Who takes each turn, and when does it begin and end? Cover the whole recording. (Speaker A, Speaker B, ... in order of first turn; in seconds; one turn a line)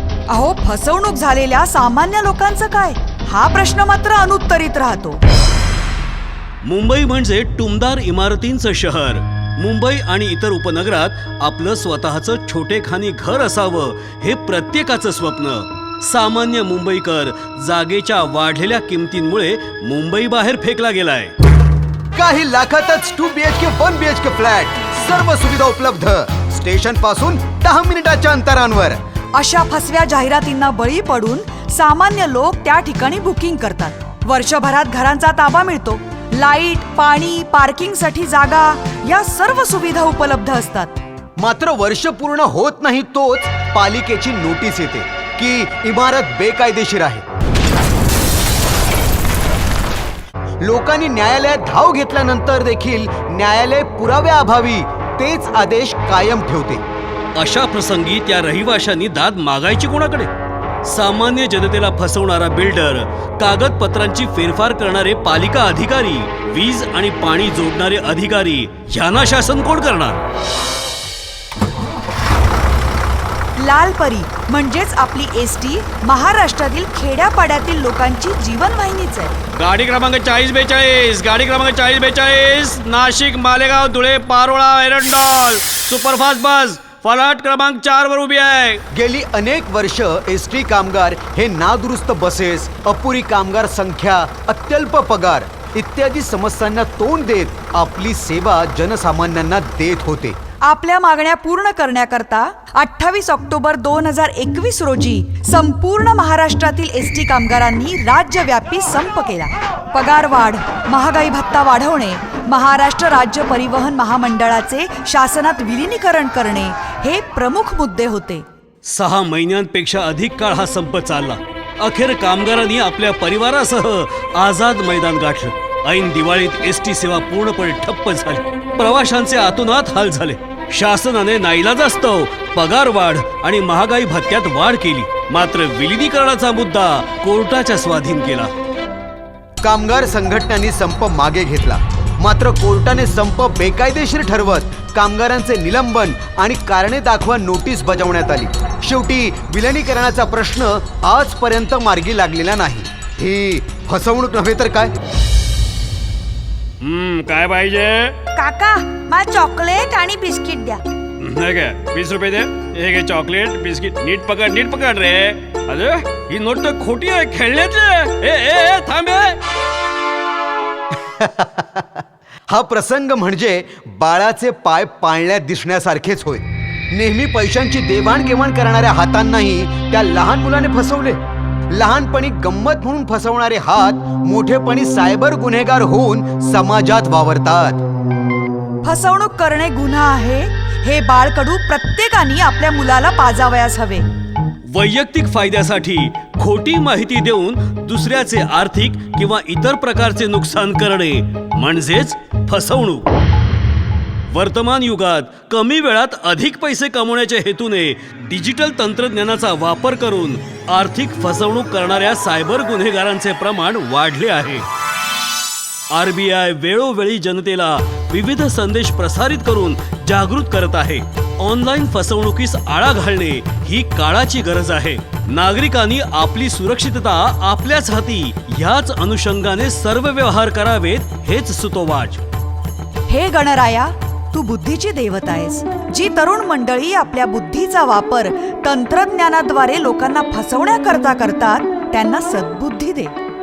Speaker A: 0.3-5.2
Speaker B: 6.6-21.3
Speaker C: 22.1-29.0
Speaker A: 29.4-40.9
Speaker C: 41.4-47.2
Speaker C: 50.6-56.8
Speaker B: 57.4-60.3
Speaker B: 60.9-70.2
Speaker A: 73.6-79.3
Speaker B: 79.5-88.8
Speaker C: 88.9-100.4
Speaker A: 100.6-118.5
Speaker B: 118.8-138.5
Speaker C: 139.6-154.9
Speaker B: 156.8-158.2
Speaker A: 158.3-160.8
Speaker B: 161.2-169.4
Speaker C: 171.2-181.2
Speaker C: 181.7-187.8
Speaker A: 188.8-194.1
Speaker B: 194.7-203.1
Speaker B: 204.3-214.7
Speaker B: 215.9-232.2
Speaker A: 233.1-243.1